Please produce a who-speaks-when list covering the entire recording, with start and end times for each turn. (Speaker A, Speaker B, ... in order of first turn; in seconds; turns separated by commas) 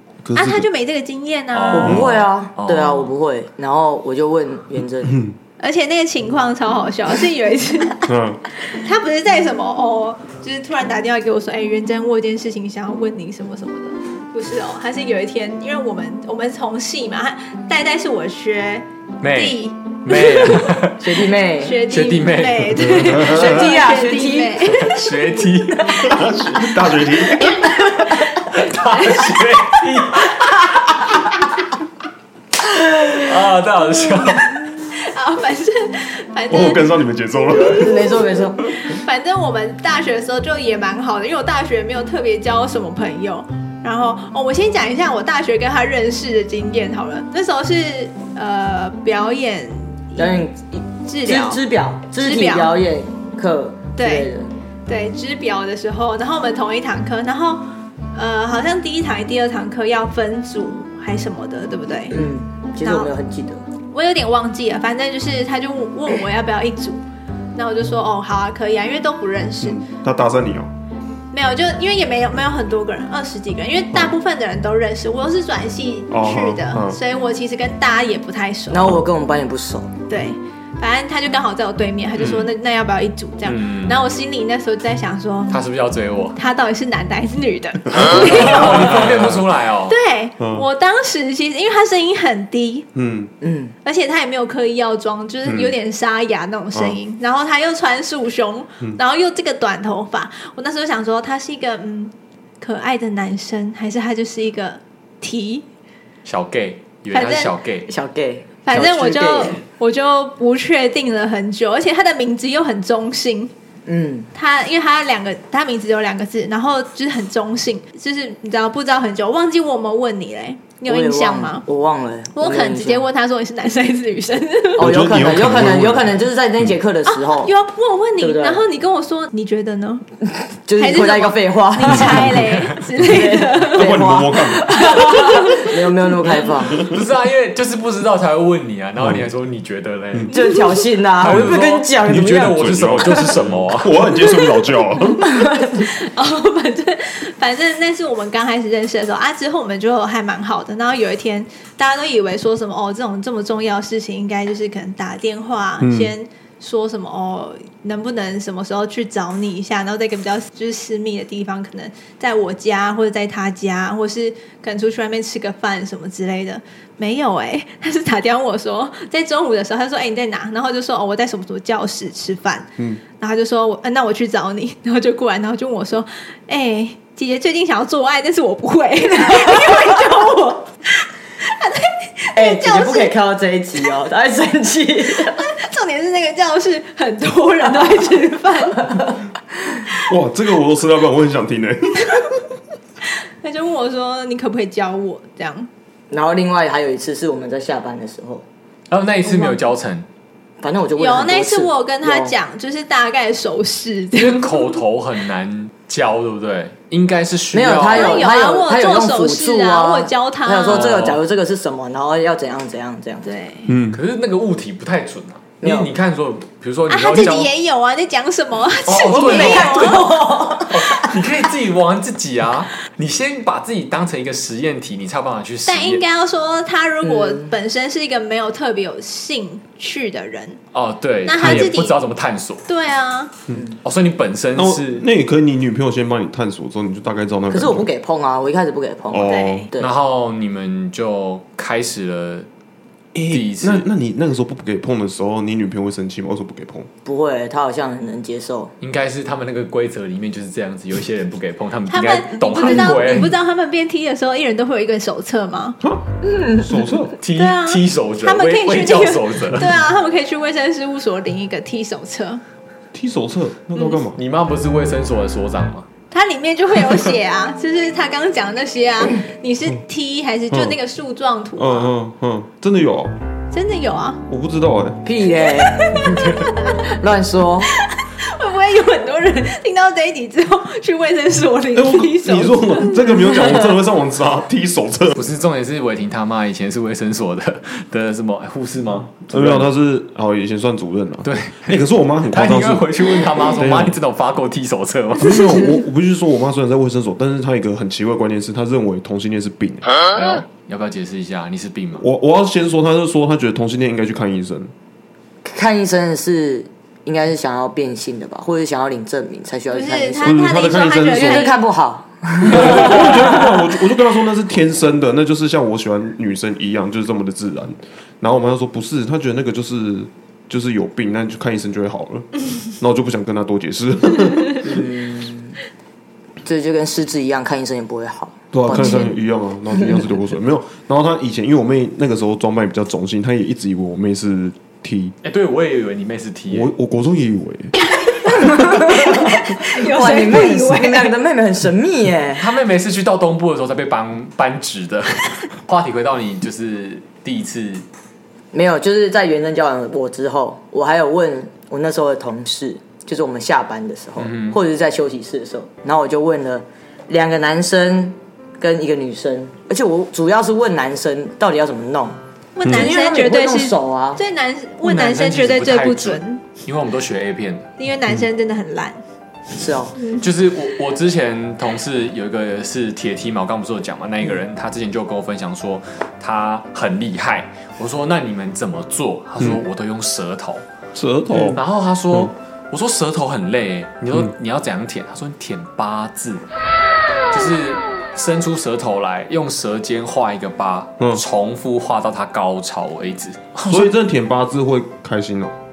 Speaker A: 0.2-0.7, Speaker B: 0.3-2.0, Speaker C: 1.5-3.1, Speaker D: 1.7-5.2, Speaker A: 1.8-2.2, Speaker A: 5.0-5.3, Speaker B: 5.6-20.7, Speaker A: 8.1-8.4, Speaker C: 19.2-21.3, Speaker D: 21.0-21.8, Speaker B: 21.6-25.1, Speaker C: 21.9-23.1, Speaker A: 22.8-23.4, Speaker D: 23.1-24.8, Speaker C: 24.6-26.2, Speaker A: 26.0-27.6, Speaker C: 28.3-30.7, Speaker B: 28.8-29.3, Speaker C: 33.1-34.6, Speaker B: 34.9-36.9, Speaker A: 36.5-38.1, Speaker D: 37.5-38.7, Speaker B: 37.5-50.5, Speaker D: 50.2-54.5, Speaker B: 51.1-51.6, Speaker B: 52.1-52.8, Speaker B: 54.0-54.3, Speaker B: 54.9-62.2, Speaker D: 62.1-63.6, Speaker B: 62.8-63.1, Speaker B: 63.9-67.0, Speaker B: 67.5-69.8, Speaker A: 69.6-70.7, Speaker B: 71.3-79.0, Speaker A: 76.1-77.0, Speaker D: 78.7-80.0, Speaker B: 80.1-85.6, Speaker C: 82.2-82.5, Speaker C: 83.4-84.0, Speaker C: 85.5-86.4, Speaker B: 86.4-89.1, Speaker A: 88.0-89.4, Speaker C: 88.1-90.0, Speaker B: 89.9-92.9, Speaker A: 90.4-90.7, Speaker A: 93.0-93.3, Speaker D: 93.4-93.8, Speaker B: 93.8-105.7, Speaker A: 95.5-95.7, Speaker C: 106.3-107.9, Speaker B: 107.1-107.5, Speaker D: 107.9-109.6, Speaker B: 108.7-113.5, Speaker D: 113.9-114.3, Speaker B: 114.3-121.6, Speaker D: 120.9-123.0, Speaker B: 122.4-124.9, Speaker D: 124.8-127.5, Speaker A: 124.8-126.8, Speaker B: 127.1-130.1, Speaker D: 128.2-128.6, Speaker D: 130.7-132.4, Speaker B: 130.8-134.1, Speaker A: 131.9-132.4, Speaker D: 133.0-136.9, Speaker A: 133.7-134.7, Speaker B: 134.6-135.8, Speaker C: 136.8-140.3, Speaker D: 140.3-143.2, Speaker B: 140.4-140.8, Speaker C: 141.2-144.1, Speaker A: 141.2-141.5, Speaker A: 142.1-145.4, Speaker D: 145.2-145.8, Speaker B: 145.8-172.7, Speaker A: 155.8-156.1, Speaker B: 173.2-183.2, Speaker D: 182.3-185.5, Speaker B: 185.2-189.1, Speaker D: 188.8-189.1, Speaker A: 190.1-192.2, Speaker B: 193.4-195.7, Speaker D: 196.1-198.4, Speaker C: 198.9-200.1, Speaker B: 199.3-199.6, Speaker D: 200.6-202.3, Speaker B: 201.0-204.8, Speaker C: 204.1-208.3, Speaker D: 207.5-213.3, Speaker B: 207.9-211.1, Speaker C: 210.7-211.2, Speaker B: 213.2-213.7, Speaker A: 213.7-214.0, Speaker C: 213.9-217.5, Speaker D: 215.6-215.9, Speaker B: 216.9-220.3, Speaker C: 218.9-226.0, Speaker D: 219.0-221.2, Speaker B: 225.7-230.6, Speaker D: 227.0-227.6, Speaker C: 230.7-232.6, Speaker B: 231.2-232.0, Speaker B: 232.7-233.3, Speaker D: 233.5-233.8, Speaker C: 233.8-235.1, Speaker A: 234.6-237.9, Speaker D: 237.5-239.9, Speaker A: 239.1-239.7, Speaker B: 239.2-239.7, Speaker C: 239.8-242.5, Speaker A: 243.2-246.9, Speaker C: 243.3-243.9, Speaker D: 247.1-248.7, Speaker C: 248.8-253.3, Speaker B: 251.9-255.8, Speaker D: 256.2-256.9, Speaker A: 256.6-257.1, Speaker C: 257.2-259.7, Speaker B: 257.4-262.4, Speaker A: 262.9-264.2, Speaker B: 263.8-264.0, Speaker C: 264.1-265.9, Speaker B: 266.1-271.9, Speaker A: 270.5-270.8, Speaker A: 271.6-273.1, Speaker B: 273.5-274.2, Speaker A: 274.3-275.0, Speaker D: 275.0-277.7, Speaker B: 275.4-276.8, Speaker C: 276.1-276.4, Speaker B: 277.7-283.4, Speaker A: 281.7-285.2, Speaker C: 285.1-289.7, Speaker A: 289.3-294.0, Speaker C: 291.2-291.8, Speaker C: 292.3-295.6, Speaker A: 295.2-299.9, Speaker C: 300.1-302.1, Speaker A: 302.0-304.7, Speaker D: 305.4-313.7, Speaker B: 309.7-311.6, Speaker A: 310.2-311.5, Speaker A: 312.4-324.7, Speaker D: 324.6-325.6, Speaker D: 326.4-329.2, Speaker A: 328.5-335.1, Speaker D: 329.7-330.1, Speaker C: 335.2-336.7, Speaker A: 336.5-337.7, Speaker D: 338.2-342.5, Speaker B: 338.7-341.1, Speaker C: 342.4-347.9, Speaker D: 348.5-364.2, Speaker C: 354.2-354.6, Speaker B: 362.6-366.4, Speaker C: 364.8-367.7, Speaker B: 367.8-369.0, Speaker D: 369.6-370.0, Speaker C: 370.1-380.6, Speaker A: 380.9-381.6, Speaker C: 381.4-386.4, Speaker C: 387.3-393.9, Speaker A: 393.6-395.5